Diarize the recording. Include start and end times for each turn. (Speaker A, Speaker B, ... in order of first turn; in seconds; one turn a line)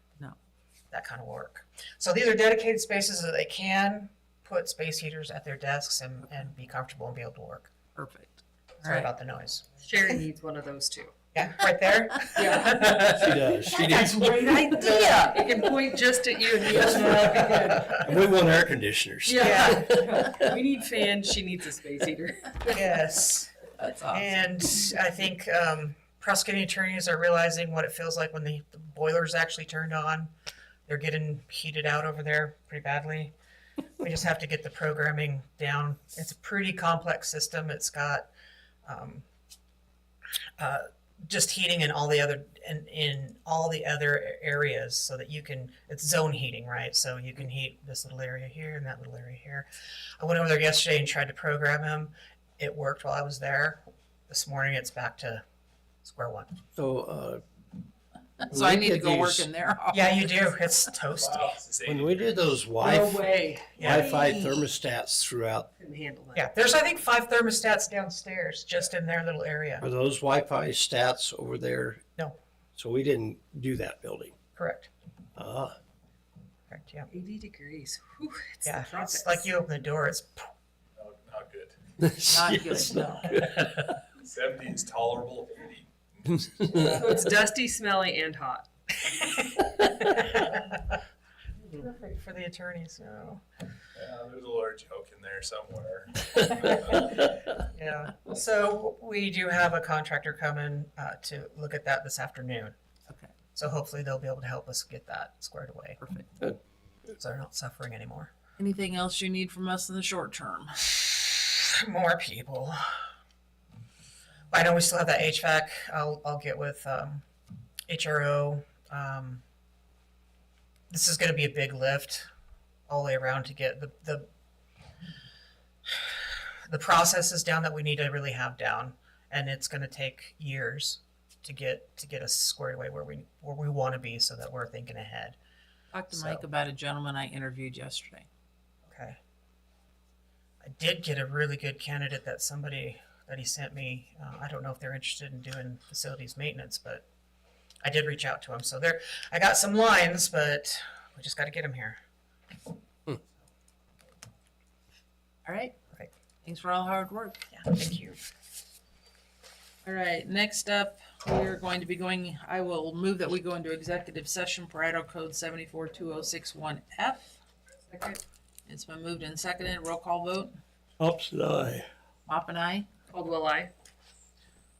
Speaker A: 0.9-7.7
Speaker B: 8.0-9.1
Speaker A: 8.8-9.7
Speaker C: 9.8-11.1
Speaker A: 11.3-13.4
Speaker C: 12.3-18.1
Speaker D: 13.2-14.8
Speaker D: 17.0-20.4
Speaker C: 19.2-22.7
Speaker A: 19.4-19.9
Speaker A: 22.7-23.5
Speaker B: 23.8-24.3
Speaker A: 24.1-30.3
Speaker A: 30.9-33.3
Speaker A: 34.0-38.3
Speaker A: 38.9-39.2
Speaker A: 40.6-49.7
Speaker A: 50.2-55.4
Speaker A: 56.0-56.6
Speaker D: 56.8-57.4
Speaker B: 58.4-60.6
Speaker D: 58.5-59.5
Speaker A: 59.9-61.5
Speaker E: 61.2-62.0
Speaker D: 61.9-65.7
Speaker C: 62.8-64.5
Speaker A: 63.8-64.0
Speaker C: 65.8-66.4
Speaker A: 66.3-69.8
Speaker D: 69.8-72.0
Speaker D: 72.8-74.3
Speaker A: 74.5-74.9
Speaker D: 75.3-75.8
Speaker A: 76.7-77.1
Speaker C: 77.1-79.4
Speaker A: 78.6-80.5
Speaker E: 81.0-81.7
Speaker D: 82.0-83.8
Speaker B: 82.2-83.3
Speaker E: 84.3-85.9
Speaker C: 86.7-88.7
Speaker A: 86.7-87.0
Speaker A: 89.0-91.0
Speaker A: 91.8-93.4
Speaker E: 94.0-96.7
Speaker A: 96.9-102.8
Speaker A: 103.5-106.0
Speaker B: 106.0-106.3
Speaker A: 107.1-108.3
Speaker B: 108.6-111.0
Speaker A: 111.4-112.8
Speaker A: 114.5-117.2
Speaker A: 117.9-119.4
Speaker A: 120.9-122.3
Speaker A: 122.9-124.3
Speaker A: 126.0-135.4
Speaker B: 135.9-138.3
Speaker A: 136.1-136.4
Speaker A: 138.8-139.2
Speaker A: 140.6-147.0
Speaker A: 147.8-152.0
Speaker B: 155.4-155.7
Speaker B: 156.4-157.4
Speaker A: 157.5-158.2
Speaker B: 159.8-167.4
Speaker C: 167.9-168.2
Speaker B: 168.7-170.5
Speaker D: 171.0-171.9
Speaker B: 172.2-172.9
Speaker C: 173.1-173.7